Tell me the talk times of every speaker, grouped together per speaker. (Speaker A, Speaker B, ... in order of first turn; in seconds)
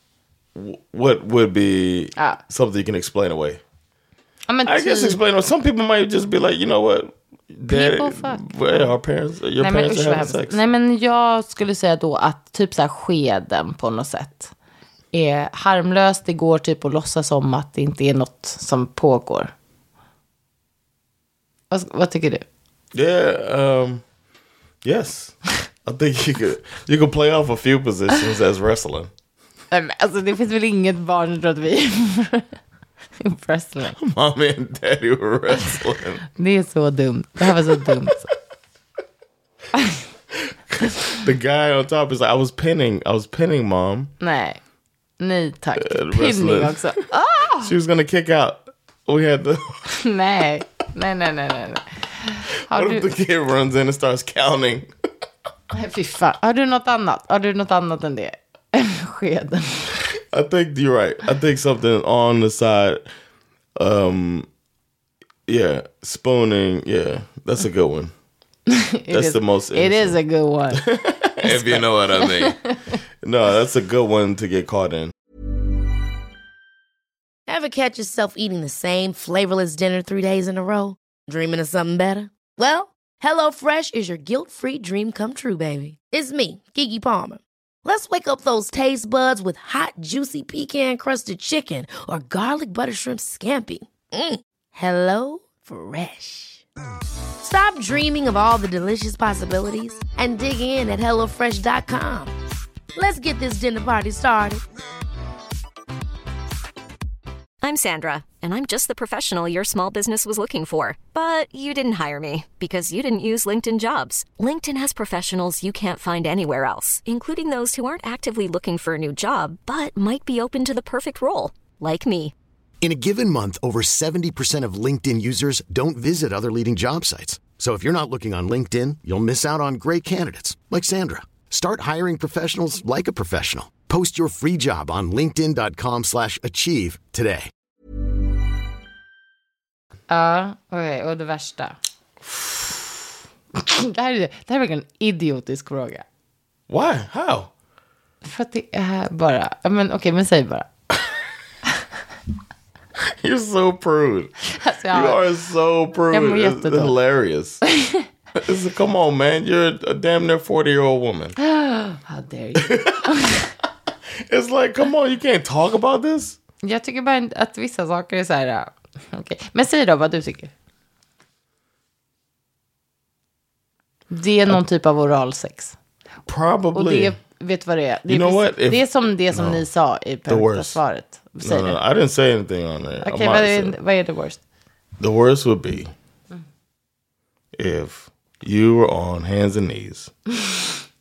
Speaker A: 0.6-3.6, 4.7-10.6, 22.9-24.0, 24.8-29.1, 33.9-36.3, 37.5-38.2, 40.4-44.1, 45.8-47.1, 47.6-50.0, 52.6-54.9, 60.3-63.0, 63.8-64.5, 65.5-68.1, 69.1-70.2, 70.7-72.6, 73.2-75.1, 142.3-142.8, 146.7-147.5, 153.2-154.3, 154.9-157.6, 158.4-161.4, 162.6-163.1, 164.3-166.4, 176.3-177.2, 178.1-179.7, 180.3-180.8, 181.4-183.8, 185.0-185.9, 187.6-190.1
Speaker B: 4.5-5.2, 7.7-8.7, 9.6-14.5, 15.1-19.5, 21.7-22.4, 29.7-32.6, 33.2-33.9, 36.4-38.2, 44.2-44.6, 45.2-47.7, 50.0-53.1, 55.7-59.9, 68.7-70.8, 71.4-72.8, 140.1-141.8, 143.5-146.0, 148.2-150.7, 154.6-155.2, 156.1-157.0, 157.6-158.1, 161.4-163.5, 166.6-170.5, 174.1-175.8, 176.8-181.8, 183.0-184.4
Speaker C: 77.5-96.6, 97.4-102.3, 102.9-104.6
Speaker D: 107.6-122.3
Speaker E: 122.8-137.5